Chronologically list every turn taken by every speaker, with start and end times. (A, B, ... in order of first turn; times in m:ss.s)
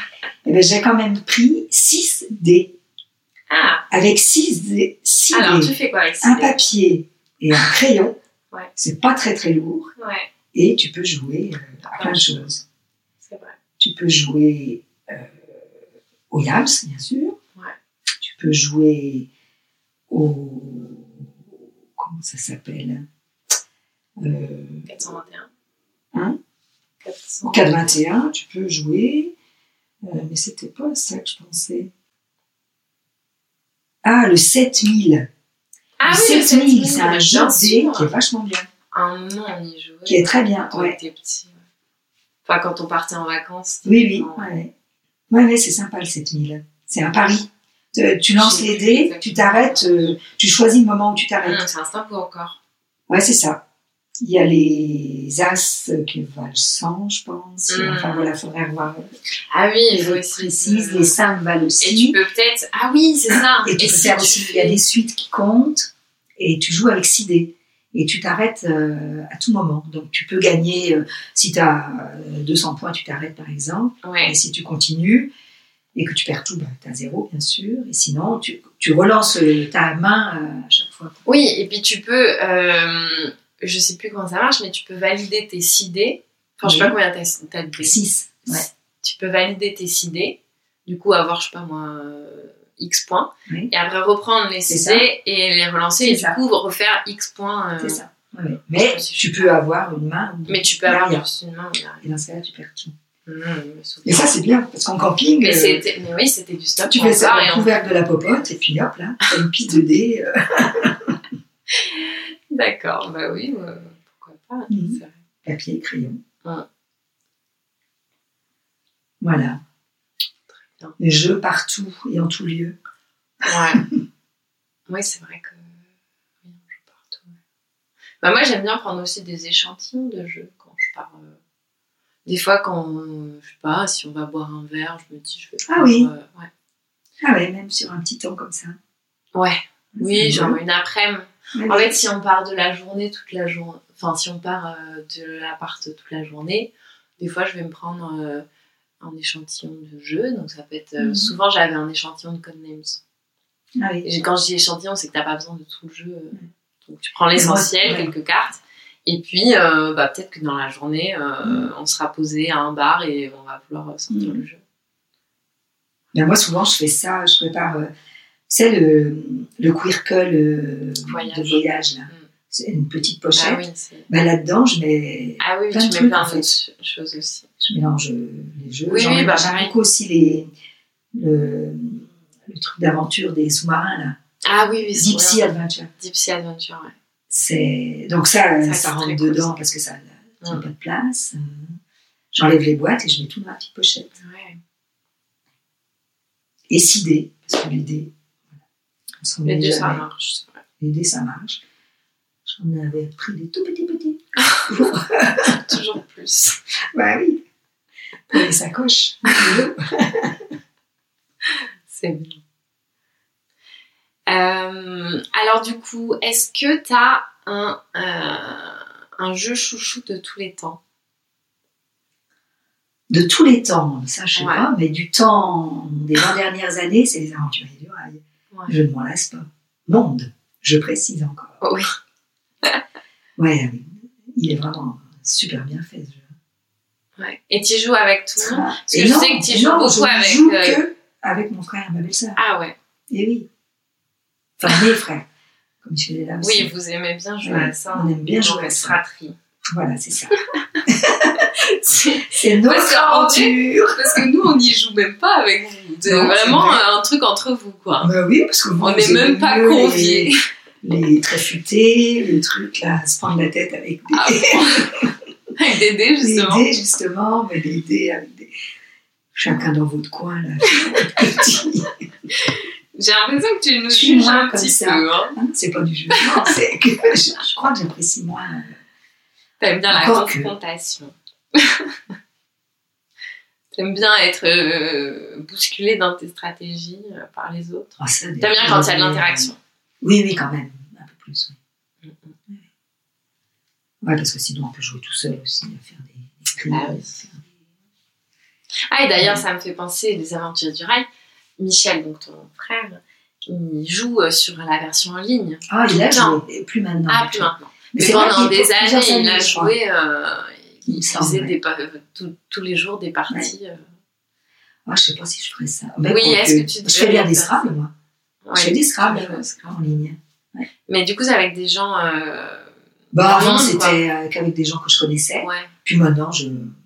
0:00.4-0:02.8 A
0:03.5-0:03.8 B
0:03.9-0:08.2 A
0:05.3-0:06.6 B
0:08.8-0:09.9 A
0:10.0-0:10.3 B
0:10.5-0:12.6 A
0:11.9-0:12.3 B
0:13.2-0:13.6 B
0:13.8-0:15.4 A
0:16.3-0:17.4 A
0:18.2-0:19.3 A
0:20.1-0:23.0 A
0:24.2-0:24.9 A
0:24.9-0:25.5 B
0:27.0-0:27.9 B
0:27.4-0:29.3 A
0:30.0-0:31.9 A
0:34.0-0:35.3 A
0:36.0-0:38.1 B
0:36.0-0:38.7 A
0:38.9-0:41.6 B
0:40.1-0:41.0 A
0:42.4-0:44.5 B
0:43.8-0:44.7 A
0:45.3-0:51.6 A
0:48.4-0:50.2 B
0:51.4-0:52.6 B
0:53.1-0:53.6 A
0:54.2-0:59.1 A
0:57.7-0:58.3 B
0:59.5-1:01.2 B
0:59.9-1:02.2 A
1:01.8-1:04.8 B
1:03.3-1:15.3 A
1:14.0-1:14.4 B
1:16.0-1:21.2 A
1:21.2-1:38.0 B
1:26.6-1:27.0 A
1:27.8-1:28.6 A
1:34.7-1:35.1 A
1:36.0-1:36.4 A
1:37.8-1:41.2 A
1:38.8-1:39.6 B
1:40.5-1:42.1 B
1:42.0-1:42.9 A
1:43.3-1:44.4 B
1:44.0-1:45.8 A
1:45.4-1:48.6 B
1:46.9-1:51.2 A
1:51.7-1:55.2 B
1:54.7-1:56.2 A
1:59.2-1:59.6 A
2:00.5-2:01.0 B
2:01.0-2:02.8 A
2:03.4-2:03.9 B
2:04.9-2:05.8 B
2:06.4-2:07.4 B
2:08.2-2:11.4 B
2:12.3-2:16.5 B
2:15.7-2:16.1 A
2:17.2-2:18.8 A
2:19.3-2:28.4 B
2:19.9-2:20.6 A
2:21.5-2:22.0 A
2:29.0-2:33.0 B
2:31.0-2:31.3 A
2:33.8-2:34.1 A
2:34.0-2:44.6 B
2:37.4-2:38.1 A
2:41.4-2:41.7 A
2:44.1-2:44.4 A
2:46.1-2:47.9 A
2:48.5-2:56.5 A
2:51.0-2:52.3 B
2:53.3-2:54.1 B
2:55.4-2:57.5 B
2:57.6-3:00.5 A
2:58.9-2:59.7 B
3:01.1-3:04.2 A
3:04.4-3:06.9 B
3:04.9-3:05.9 A
3:07.3-3:11.8 A
3:08.6-3:09.6 B
3:12.3-3:14.2 A
3:14.2-3:14.6 B
3:16.7-3:18.1 A
3:19.2-3:20.0 A
3:19.4-3:20.6 B
3:20.8-3:21.6 A
3:22.4-3:25.8 A
3:25.5-3:26.6 B
3:26.9-3:27.4 A
3:28.3-3:30.4 A
3:31.9-3:32.4 B
3:34.3-3:40.8 B
3:43.1-3:51.6 A
3:44.4-3:44.7 B
3:51.6-3:51.9 B
3:53.4-3:56.3 A
3:57.2-4:00.8 B
3:58.4-4:02.4 A
4:02.4-4:02.8 B
4:03.1-4:03.5 A
4:04.6-4:05.3 A
4:05.8-4:06.7 A
4:06.4-4:09.4 B
4:07.4-4:09.0 A
4:09.7-4:11.5 A
4:11.6-4:18.1 B
4:12.3-4:14.3 A
4:16.1-4:16.8 A
4:18.0-4:20.3 A
4:18.8-4:20.4 B
4:20.8-4:25.1 A
4:24.1-4:24.9 B
4:25.6-4:26.7 B
4:26.2-4:28.5 A
4:29.3-4:31.9 A
4:32.3-4:35.4 B
4:33.9-4:38.8 A
4:36.2-4:36.5 B
4:39.6-4:41.9 B
4:39.9-4:40.5 A
4:43.7-4:49.6 B
4:48.0-4:51.6 A
4:52.0-4:52.4 B
4:54.0-4:57.4 A
4:56.7-4:57.2 B
4:58.9-5:01.1 B
5:01.6-5:06.4 B
5:05.7-5:09.7 A
5:07.1-5:13.8 B
5:10.8-5:11.5 A
5:14.9-5:17.9 A
5:16.1-5:17.7 B
5:18.4-5:19.8 B
5:18.6-5:20.7 A
5:20.9-5:22.7 B
5:23.1-5:26.8 A
5:23.3-5:24.0 B
5:25.4-5:25.7 B